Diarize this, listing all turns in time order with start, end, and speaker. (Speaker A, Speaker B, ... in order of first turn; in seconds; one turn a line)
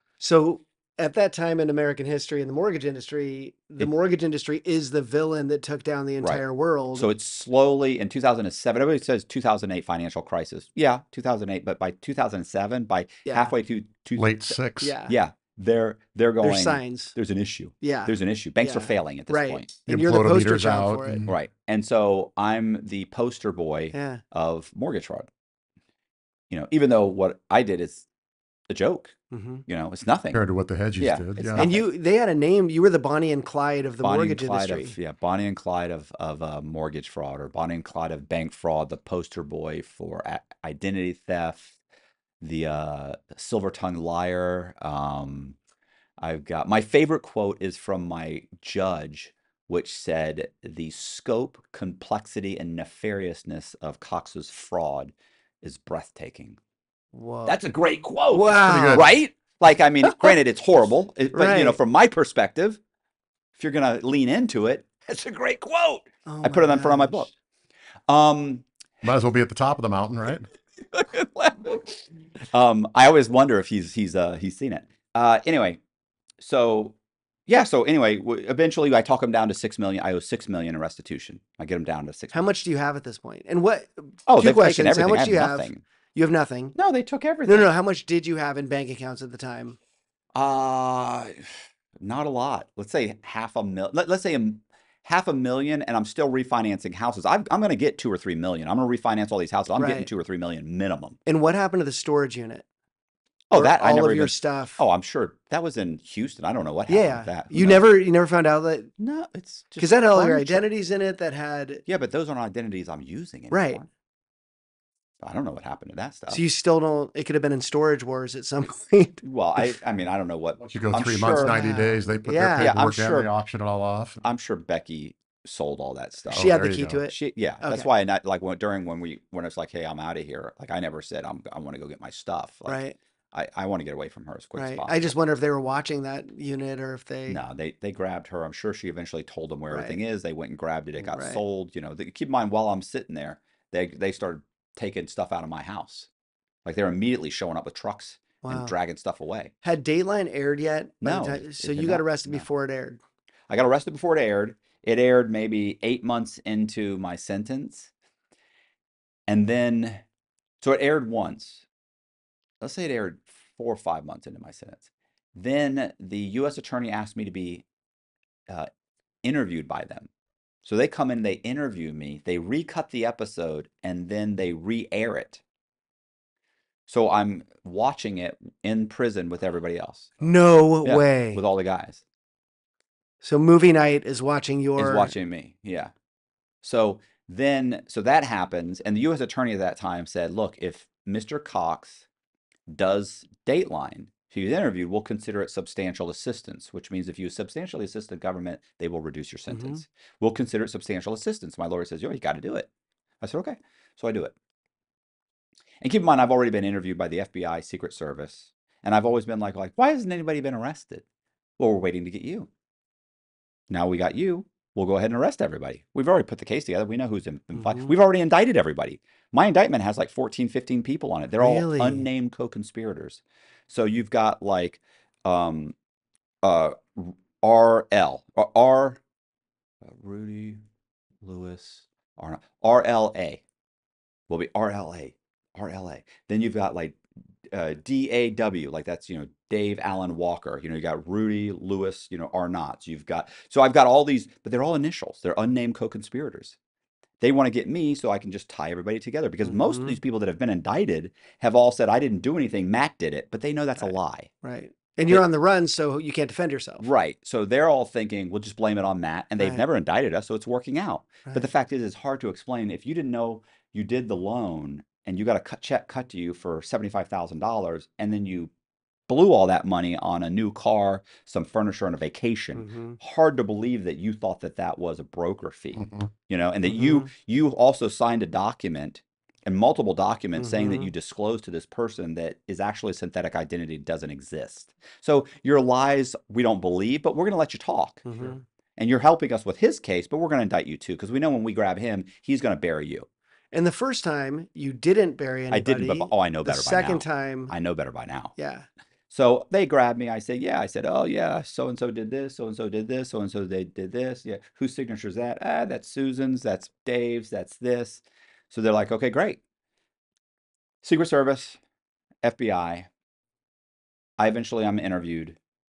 Speaker A: 0.2-7.1
Speaker B: 6.9-19.7
Speaker A: 13.2-13.5
Speaker C: 14.2-14.9
Speaker A: 14.8-15.1
Speaker A: 16.4-17.1
Speaker A: 17.8-21.2
Speaker C: 19.9-21.4
Speaker B: 21.3-25.3
Speaker A: 23.9-24.2
Speaker B: 26.5-28.1
Speaker B: 28.7-30.4
Speaker A: 29.3-29.6
Speaker C: 30.3-31.7
Speaker B: 31.0-31.8
Speaker A: 31.6-34.9
Speaker B: 34.0-41.8
Speaker B: 42.4-45.6
Speaker B: 46.2-56.6
Speaker A: 57.1-57.6
Speaker B: 57.5-62.8
Speaker A: 58.3-59.1
Speaker C: 58.6-59.1
Speaker A: 60.0-60.4
Speaker A: 61.3-61.8
Speaker B: 63.5-67.3
Speaker A: 66.3-67.3
Speaker B: 68.1-68.7
Speaker C: 69.0-70.5
Speaker B: 70.8-75.8
Speaker B: 76.4-77.0
Speaker B: 77.5-82.6
Speaker A: 82.3-86.8
Speaker B: 84.2-85.8
Speaker B: 86.8-87.7
Speaker A: 87.5-89.8
Speaker B: 90.3-101.2
Speaker A: 99.8-100.1
Speaker A: 101.2-102.6
Speaker B: 103.5-107.9
Speaker A: 103.5-104.8
Speaker A: 106.9-108.9
Speaker B: 109.0-110.6
Speaker A: 109.8-111.8
Speaker B: 111.8-113.9
Speaker A: 113.5-113.8
Speaker B: 115.2-116.4
Speaker A: 116.3-119.7
Speaker B: 119.2-121.6
Speaker C: 120.6-124.2
Speaker A: 121.3-122.7
Speaker B: 122.6-123.3
Speaker B: 124.2-135.1
Speaker A: 126.3-127.9
Speaker C: 126.3-127.0
Speaker A: 132.7-132.9
Speaker A: 134.6-137.4
Speaker B: 137.3-146.1
Speaker A: 141.1-141.4
Speaker B: 146.6-149.5
Speaker A: 148.4-148.7
Speaker A: 149.6-153.0
Speaker B: 151.0-152.5
Speaker B: 153.5-157.9
Speaker B: 159.3-160.0
Speaker B: 160.6-161.6
Speaker B: 162.6-167.6
Speaker B: 169.2-170.1
Speaker B: 170.6-175.4
Speaker B: 176.9-180.3
Speaker A: 180.2-181.4
Speaker B: 180.8-182.0
Speaker A: 183.2-185.1
Speaker B: 184.8-185.9
Speaker B: 186.6-192.1
Speaker B: 192.7-202.7
Speaker A: 199.5-199.8
Speaker B: 203.2-204.3
Speaker B: 205.8-211.0
Speaker B: 211.6-212.5
Speaker B: 213.7-225.7
Speaker A: 217.6-217.9
Speaker A: 221.4-222.1
Speaker B: 226.4-229.0
Speaker B: 229.8-230.6
Speaker B: 231.2-233.4
Speaker B: 234.3-237.0
Speaker B: 237.5-246.6
Speaker B: 247.2-254.3
Speaker A: 249.4-250.0
Speaker A: 254.4-256.9
Speaker B: 256.8-268.5
Speaker B: 269.1-288.0
Speaker A: 272.5-273.0
Speaker A: 276.6-277.1
Speaker A: 280.4-280.9
Speaker A: 288.1-288.4
Speaker B: 288.8-293.1
Speaker A: 293.5-297.5
Speaker B: 295.5-298.3
Speaker A: 298.4-298.7
Speaker B: 299.1-309.4
Speaker B: 310.8-311.6
Speaker B: 312.2-312.9
Speaker B: 314.2-315.4